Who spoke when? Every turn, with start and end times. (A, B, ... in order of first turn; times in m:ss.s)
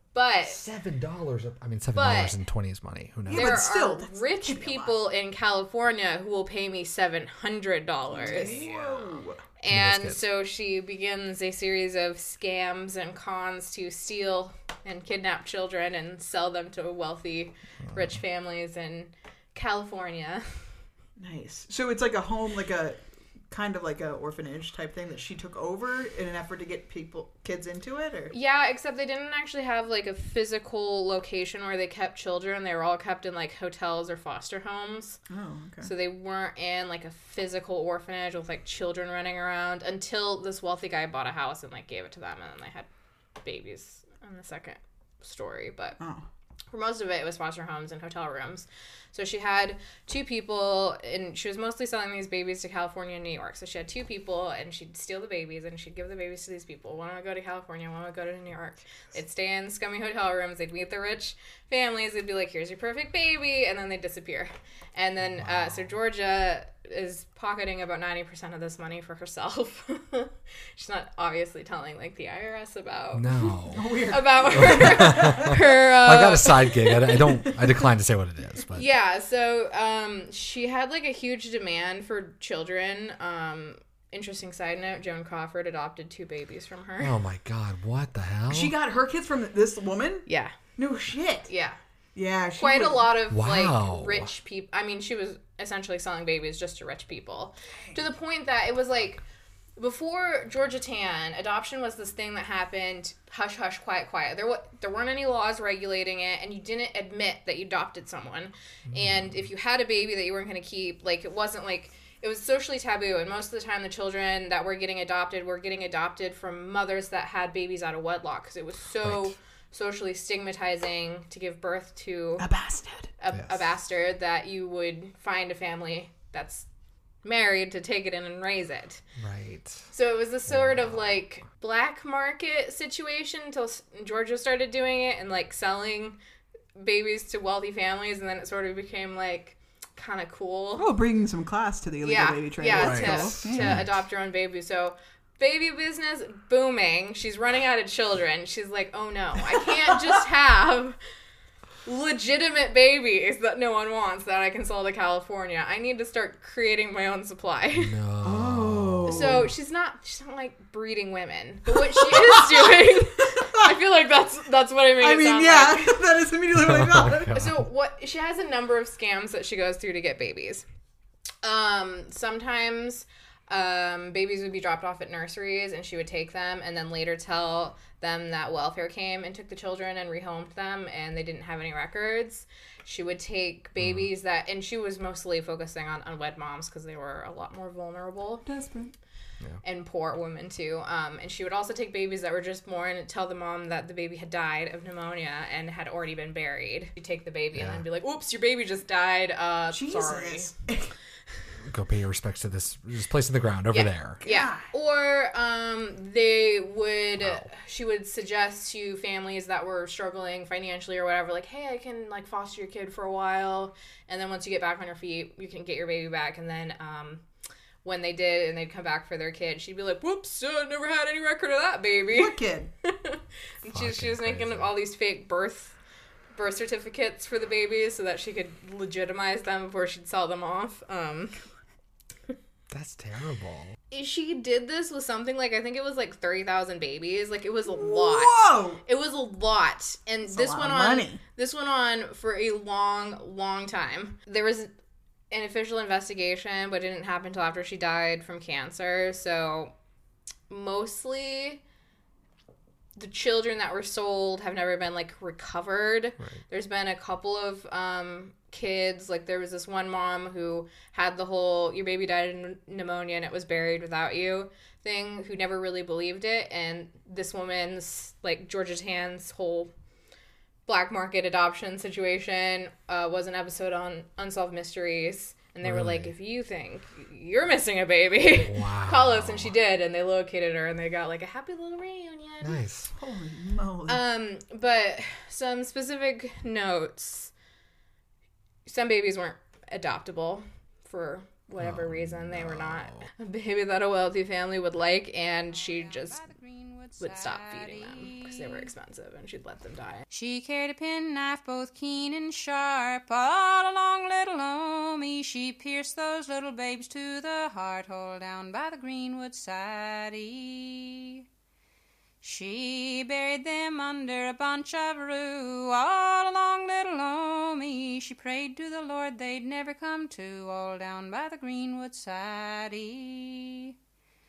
0:00.1-0:00.6 A
0:00.4-0:03.6 B
0:01.9-0:02.4 A
0:03.3-0:05.0 C
0:03.3-0:08.7 A
0:08.1-0:09.4 C
0:08.3-0:09.0 B
0:09.6-0:20.4 A
0:09.7-0:10.2 B
0:17.9-0:18.2 B
0:21.2-0:28.3 C
0:28.3-0:35.2 A
0:35.3-0:35.9 C
0:35.8-0:42.9 A
0:43.4-0:46.0 A
0:46.0-0:46.2 C
0:46.7-1:13.5 A
1:05.4-1:05.9 B
1:13.1-1:13.9 B
1:13.7-1:15.5 C
1:14.1-1:17.2 A
1:14.5-1:18.9 B
1:18.7-1:27.1 A
1:27.0-1:28.7 B
1:28.5-1:31.5 C
1:30.3-1:30.5 A
1:31.5-1:31.8 A
1:32.1-1:33.1 C
1:32.6-1:39.2 A
1:33.3-1:34.3 B
1:39.8-2:02.5 A
1:48.9-1:49.4 B
1:59.0-1:59.3 B
2:02.4-2:03.1 C
2:03.2-2:06.7 A
2:03.3-2:03.6 B
2:07.2-2:09.0 A
2:09.2-2:09.9 B
2:09.9-2:16.2 A
2:10.5-2:11.1 B
2:16.8-2:20.9 A
2:20.8-2:23.9 C
2:22.0-2:31.0 A
2:22.7-2:23.9 B
2:31.8-2:37.9 A
2:37.7-2:39.5 B
2:38.2-2:39.5 C
2:39.1-2:46.0 A
2:41.7-2:43.7 C
2:45.0-2:47.5 C
2:46.5-2:47.5 B
2:47.3-2:50.6 A
2:51.4-3:08.4 A
3:03.8-3:04.1 B
3:08.4-3:08.9 C
3:09.6-3:20.5 A
3:17.5-3:17.8 B
3:19.7-3:20.9 C
3:21.7-3:24.2 B
3:23.7-3:37.2 A
3:24.2-3:24.7 C
3:27.2-3:27.5 B
3:37.8-3:45.7 A
3:42.1-3:42.7 C
3:43.7-3:44.7 B
3:46.3-3:51.4 A
3:52.7-3:53.7 B
3:53.9-4:04.7 A
3:57.7-3:58.8 C
4:00.3-4:01.2 C
4:05.3-4:09.7 A
4:10.5-4:11.6 A
4:13.0-4:29.7 A
4:30.6-4:42.6 A
4:35.6-4:36.1 B
4:38.2-4:39.5 B
4:42.4-4:42.9 B
4:42.9-4:44.0 C
4:43.9-4:47.3 A
4:48.6-4:56.2 A
4:51.6-4:53.1 B
4:55.5-4:58.7 D
4:57.0-5:00.0 A
5:00.1-5:11.2 D
5:12.2-5:23.7 D